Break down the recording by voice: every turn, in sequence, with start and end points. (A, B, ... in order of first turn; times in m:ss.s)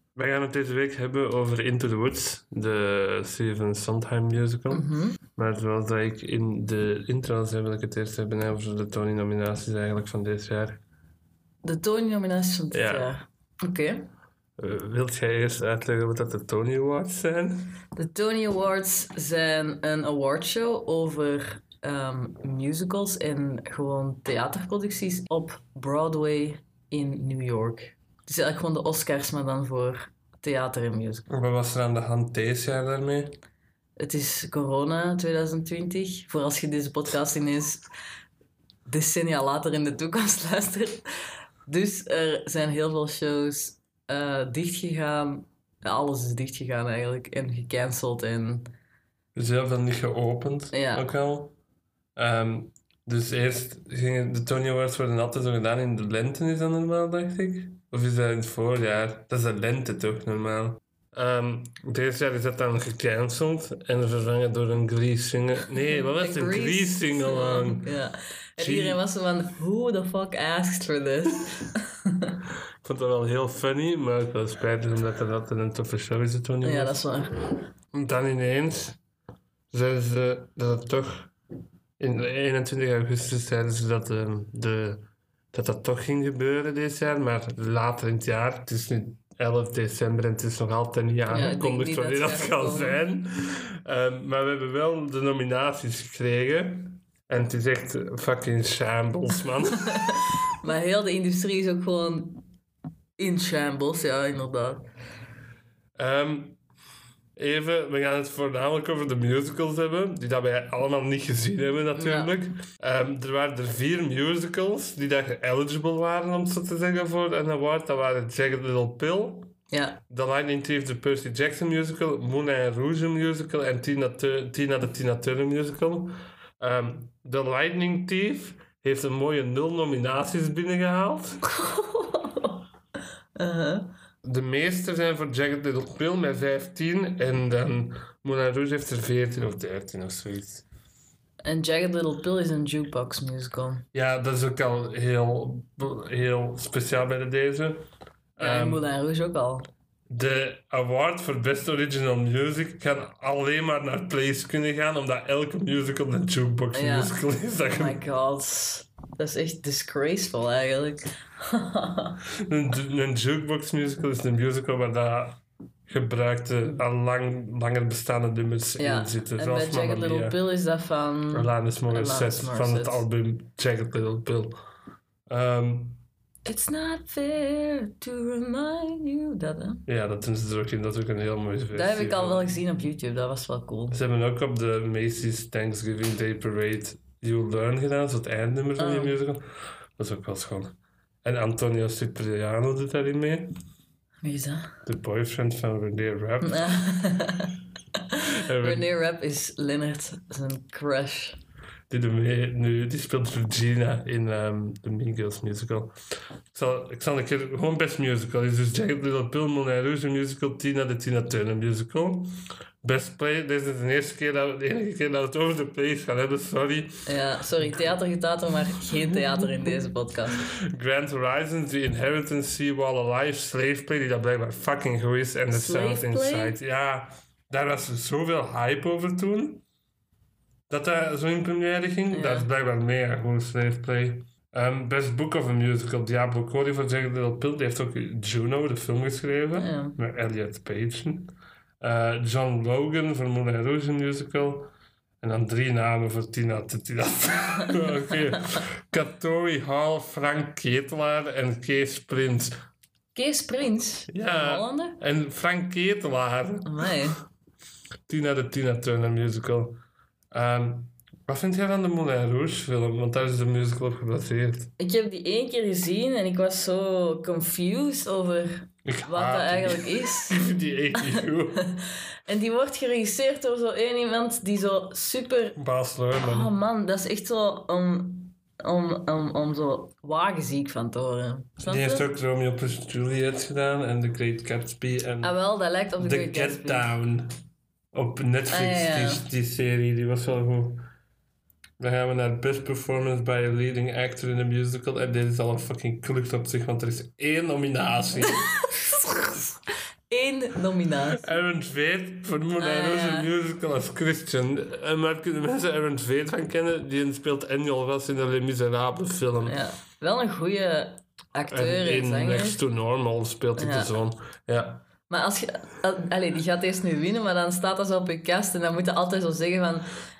0:00.2-0:10.8 A
0:04.7-0:05.2 B
0:11.6-0:14.0 B
0:12.7-0:13.1 A
0:14.6-0:17.7 A
0:18.0-0:31.2 B
0:31.3-0:33.4 A
0:34.0-0:37.8 B
0:38.8-0:41.0 B
0:41.6-0:48.7 B
0:49.4-0:51.5 A
0:50.7-0:51.1 B
0:52.2-1:07.9 A
1:05.9-1:12.3 B
1:08.6-1:09.0 A
1:12.8-1:17.0 A
1:16.6-1:17.4 B
1:17.9-1:19.0 A
1:19.7-1:21.3 A
1:22.0-1:40.1 A
1:31.3-1:33.0 B
1:40.6-1:42.4 B
1:43.2-1:44.8 B
1:46.0-1:46.6 A
1:47.4-1:59.5 A
1:51.9-1:52.3 B
1:59.7-2:00.0 B
2:00.1-2:11.4 A
2:11.4-2:12.6 B
2:13.4-2:13.9 B
2:14.2-2:20.6 A
2:21.4-2:23.8 B
2:23.9-2:27.8 A
2:28.4-2:28.8 A
2:28.4-2:29.7 B
2:30.1-2:38.0 A
2:36.7-2:37.1 B
2:37.7-2:42.2 B
2:42.4-2:50.4 A
2:48.8-2:53.0 B
2:51.3-2:54.6 A
2:55.3-2:56.0 A
2:56.4-2:59.8 B
2:59.9-3:02.6 A
3:01.7-3:04.0 B
3:03.9-3:13.5 A
3:08.8-3:09.2 B
3:14.2-3:14.8 B
3:14.8-3:16.8 A
3:16.4-3:17.5 B
3:18.1-3:21.4 B
3:18.4-3:18.9 A
3:21.9-3:25.9 A
3:26.5-3:37.1 A
3:37.1-3:40.4 B
3:39.1-3:39.5 A
3:40.4-3:49.6 A
3:45.5-3:46.6 B
3:50.7-4:12.6 A
3:52.1-3:52.5 B
3:59.6-4:00.0 B
4:13.1-4:15.0 B
4:14.1-4:16.9 A
4:16.6-4:17.2 B
4:18.1-4:19.8 A
4:20.3-4:24.7 A
4:24.8-4:30.4 B
4:28.8-4:31.6 A
4:32.3-4:35.6 B
4:35.6-4:36.5 A
4:36.2-4:42.1 B
4:41.6-4:45.3 A
4:45.2-4:46.9 B
4:46.0-4:47.3 A
4:47.9-4:50.9 A
4:48.5-4:49.2 B
4:51.8-4:58.9 A
5:00.1-5:01.3 B
5:01.2-5:09.6 A
5:02.6-5:03.3 B
5:09.5-5:12.6 B
5:11.5-5:14.8 A
5:13.6-5:13.9 B
5:15.1-5:19.9 B